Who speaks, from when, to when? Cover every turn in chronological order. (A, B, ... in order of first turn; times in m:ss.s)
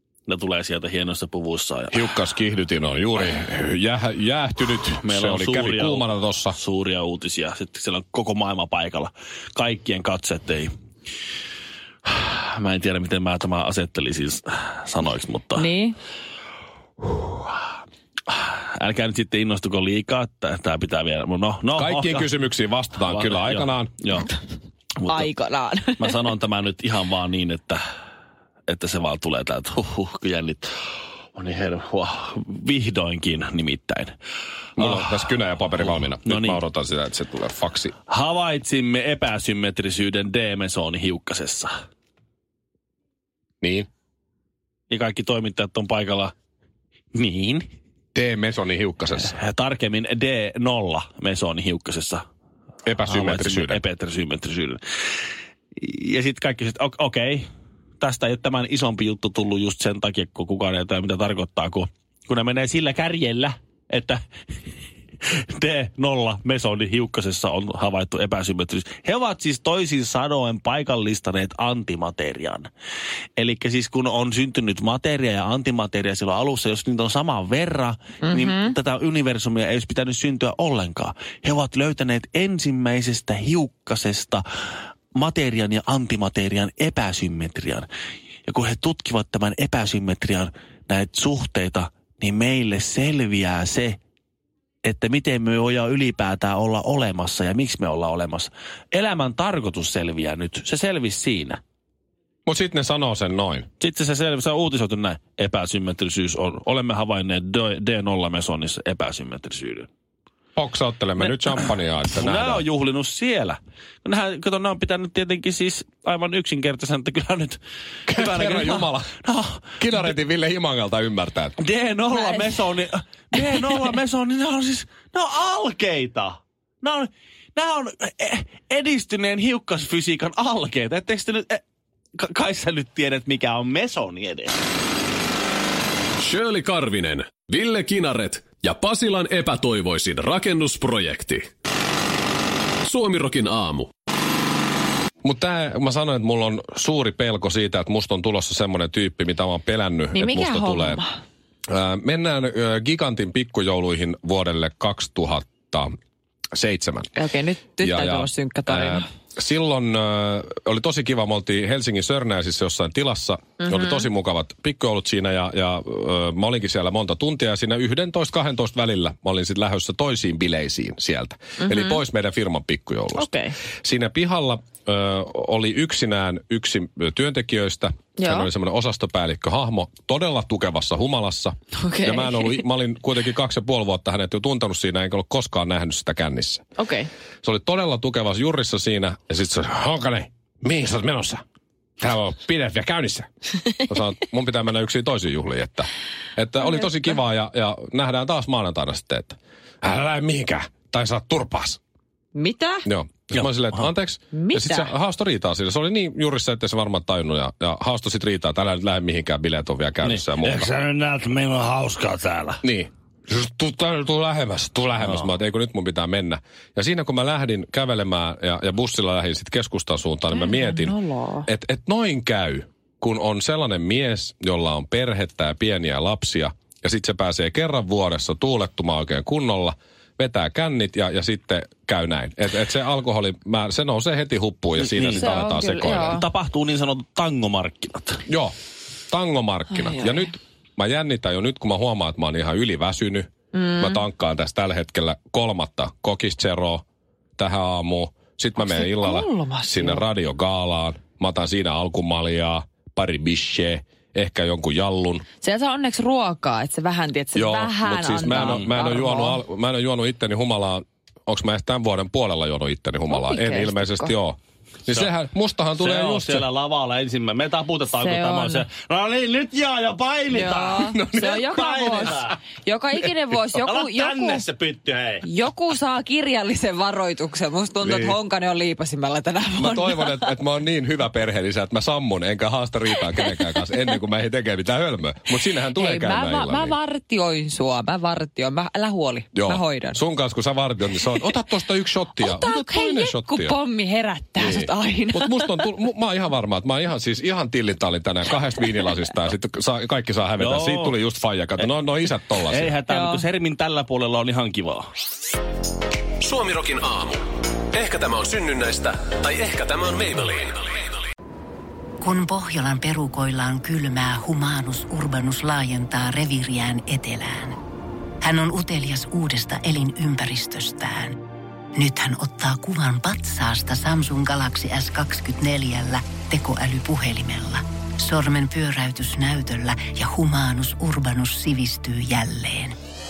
0:00.3-0:02.1 A
0:01.9-0:06.6 B
0:05.0-0:10.7 A
0:12.1-0:15.7 A
0:15.6-0:16.0 C
0:18.3-0:22.3 A
0:21.7-0:23.9 B
0:23.0-0:24.3 A
0:25.0-0:25.3 A
0:25.1-0:26.1 C
0:26.0-0:27.8 A
0:28.7-0:30.7 A
0:31.4-0:34.1 A
0:34.8-0:35.2 A
0:34.8-0:37.9 B
0:35.8-0:36.6 A
0:38.1-0:41.7 A
0:43.6-0:43.9 B
0:44.9-0:46.3 A
0:47.1-0:47.6 A
0:48.1-0:49.3 B
0:49.2-0:52.2 A
0:52.8-0:53.8 B
0:53.1-0:54.8 A
0:55.8-0:57.5 A
0:58.0-1:04.2 A
1:05.5-1:12.7 A
1:13.4-1:24.4 A
1:18.2-1:18.7 C
1:25.2-1:27.9 A
1:28.5-1:34.0 A
1:34.8-1:41.6 A
1:42.5-1:43.7 B
1:43.8-1:49.9 A
1:50.6-1:52.6 B
1:52.1-2:00.1 A
1:58.1-1:59.1 B
1:59.8-2:01.6 B
2:01.6-2:11.6 A
2:02.1-2:02.4 C
2:12.2-2:14.5 A
2:16.2-2:21.5 D
2:22.8-2:23.9 D
2:25.2-2:31.0 B
2:30.1-2:31.2 C
2:31.7-2:35.9 B
2:36.5-2:37.1 B
2:37.1-2:39.0 C
2:37.8-2:53.3 B
2:43.6-2:44.0 C
2:51.6-2:52.0 C
2:53.2-2:53.6 C
2:53.8-3:06.6 B
2:58.2-2:58.5 C
3:01.8-3:02.6 C
3:06.8-3:07.1 C
3:07.4-3:11.4 B
3:12.0-3:21.8 B
3:22.3-3:22.9 C
3:22.9-3:30.7 B
3:23.3-3:23.9 A
3:24.3-3:24.9 C
3:30.0-3:32.6 A
3:32.6-3:56.2 B
3:35.0-3:35.3 A
3:40.3-3:41.5 C
3:54.8-3:58.2 A
3:55.1-3:56.2 C
3:58.3-3:58.5 B
3:59.1-4:06.8 B
3:59.7-4:00.3 C
4:03.5-4:04.0 C
4:07.4-4:15.2 B
4:08.6-4:10.0 C
4:15.4-4:19.4 C
4:17.4-4:26.5 B
4:18.4-4:18.7 A
4:23.1-4:24.1 C
4:25.8-4:32.4 A
4:27.9-4:28.6 C
4:30.3-4:34.5 C
4:30.9-4:31.5 B
4:33.5-4:35.2 A
4:35.2-4:40.4 C
4:37.8-4:38.2 B
4:39.6-4:46.8 B
4:42.9-4:43.4 C
4:45.8-4:50.0 C
4:49.4-4:53.6 B
4:52.2-4:55.7 C
4:54.4-5:02.8 B
5:00.4-5:01.0 A
5:02.5-5:04.9 A
5:02.9-5:03.2 C
5:06.2-5:07.2 D
5:07.7-5:10.8 D
5:12.0-5:17.6 E
5:18.2-5:21.2 E
5:21.8-5:32.8 E